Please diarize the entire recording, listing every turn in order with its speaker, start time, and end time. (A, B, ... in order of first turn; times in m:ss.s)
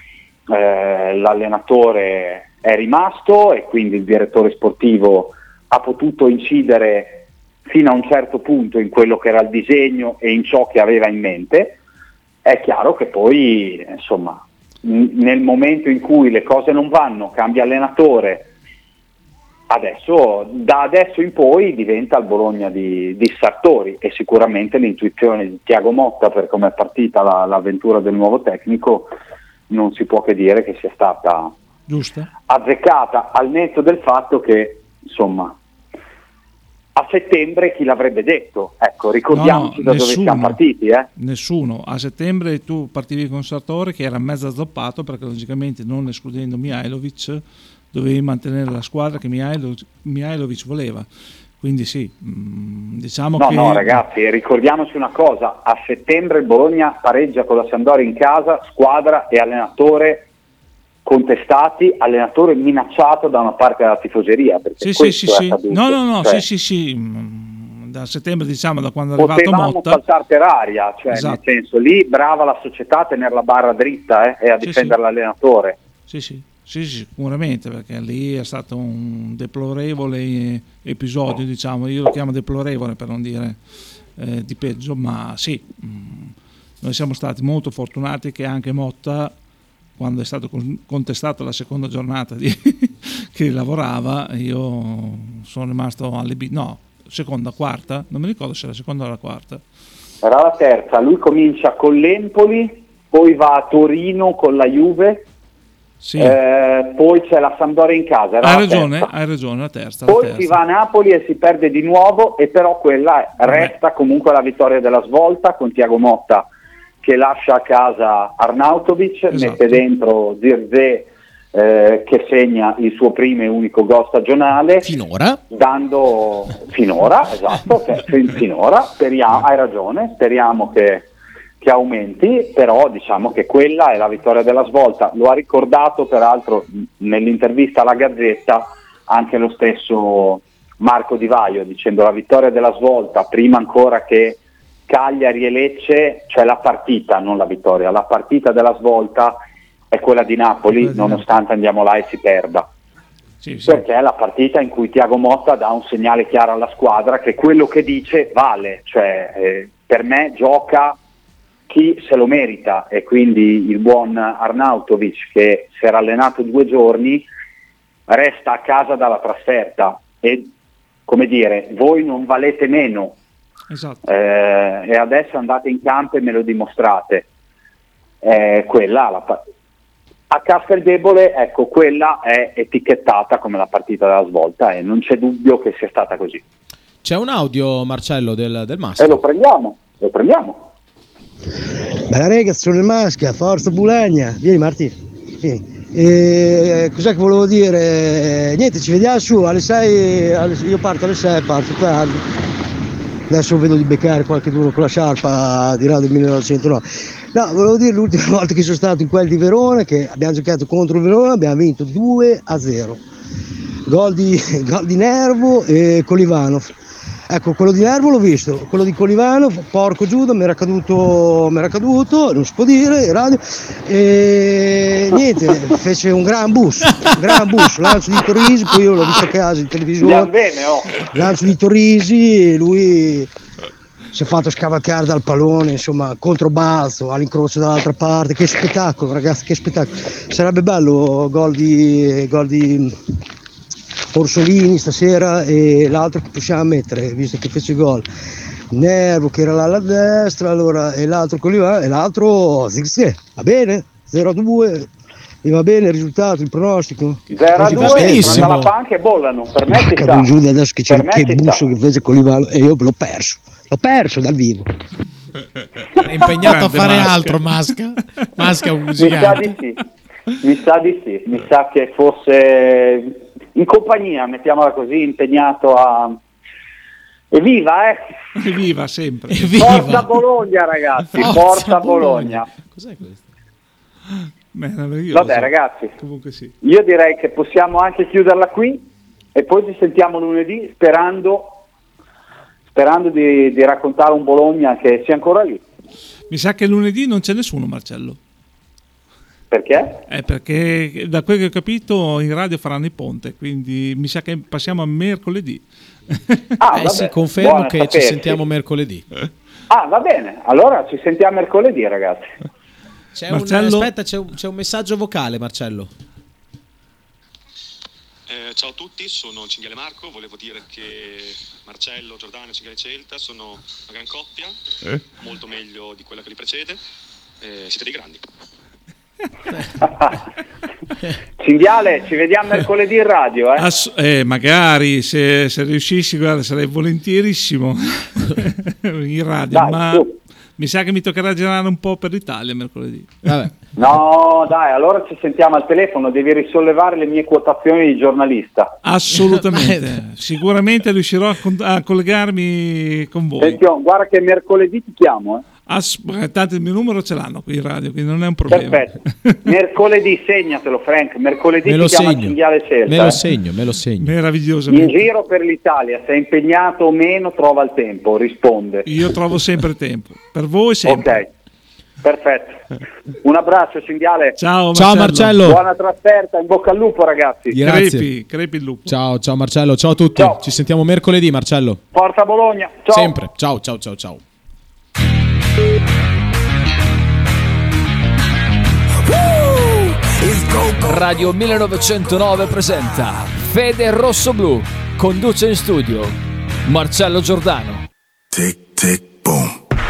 0:00.5-0:11.8 A
0:12.4-0:18.5 A
0:19.7-0:29.1 A
0:29.7-0:31.5 A
0:31.9-0:32.3 B
0:32.5-0:35.6 A
0:37.0-0:41.1 A
0:39.3-0:40.6 B
0:41.2-0:51.1 B
0:51.6-0:54.0 B
0:53.4-1:00.3 A
1:01.0-1:06.4 A
1:04.8-1:10.0 B
1:09.2-1:15.8 A
1:11.1-1:11.4 B
1:14.6-1:15.0 B
1:16.1-1:23.6 B
1:24.2-1:29.4 B
1:30.0-1:39.6 B
1:40.2-1:45.2 A
1:46.0-1:46.4 B
1:46.2-1:49.1 A
1:48.4-1:50.6 B
1:50.1-1:56.5 A
1:53.5-1:53.7 B
1:57.0-2:04.9 A
1:59.3-1:59.8 B
2:04.8-2:05.4 C
2:05.5-2:11.1 A
2:11.6-2:29.4 A
2:29.9-2:32.7 A
2:30.9-2:31.2 B
2:33.4-2:33.8 B
2:33.7-2:41.0 A
2:41.7-2:47.3 A
2:48.1-2:50.5 A
2:51.1-2:53.2 A
2:53.7-2:54.0 B
2:54.0-2:57.3 A
2:58.2-2:59.4 A
3:00.3-3:06.4 A
3:07.0-3:09.2 C
3:09.0-3:10.7 A
3:12.1-3:22.2 D
3:23.3-3:33.0 D
3:33.9-3:36.7 D
3:37.3-3:50.3 D
3:46.9-3:47.7 C
3:50.0-3:51.1 A
3:51.1-3:53.3 D
3:54.1-4:03.0 D
4:04.1-4:08.1 D
4:08.7-4:14.9 D
4:15.4-4:18.6 D
4:17.3-4:20.3 A
4:17.6-4:18.7 C
4:19.7-4:24.7 D
4:20.9-4:21.6 A
4:26.0-4:29.5 C
4:26.4-4:27.4 B
4:29.0-4:29.8 A
4:30.4-4:36.2 A
4:37.3-4:38.1 A
4:38.4-4:39.7 B
4:39.3-4:40.1 C
4:39.6-4:42.5 A
4:41.2-4:43.2 C
4:44.5-4:46.5 B
4:45.1-4:45.9 A
4:46.6-4:51.6 A
4:52.7-4:55.6 A
4:56.3-4:58.2 B
4:59.5-5:00.0 A
5:00.1-5:06.4 B
5:06.6-5:08.4 A
5:06.7-5:09.1 C
5:09.7-5:12.3 A
5:13.2-5:15.9 C
5:13.3-5:13.9 B
5:18.3-5:24.6 E
5:25.1-5:26.8 E
5:27.4-5:28.3 E
5:31.4-5:33.7 A
5:33.6-5:43.2 B
5:39.5-5:40.1 A
5:43.2-5:43.5 C
5:43.8-5:48.8 A
5:48.8-5:53.6 B
5:49.2-5:49.8 C
5:53.4-5:55.4 A
5:55.7-5:59.4 B
5:58.5-6:03.2 A
6:01.7-6:02.4 C
6:02.9-6:04.1 C
6:04.0-6:05.0 B
6:04.7-6:08.9 A
6:08.9-6:11.2 B
6:10.9-6:11.3 A
6:12.0-6:12.7 A
6:13.2-6:14.4 A
6:14.4-6:15.4 B
6:14.8-6:15.6 C
6:15.4-6:17.6 A
6:17.5-6:18.1 C
6:17.6-6:18.9 B
6:18.9-6:21.8 C
6:20.2-6:20.4 A
6:21.9-6:23.1 A
6:22.9-6:24.2 C
6:30.2-6:30.8 F
6:30.8-6:37.9 G
6:38.3-6:39.6 F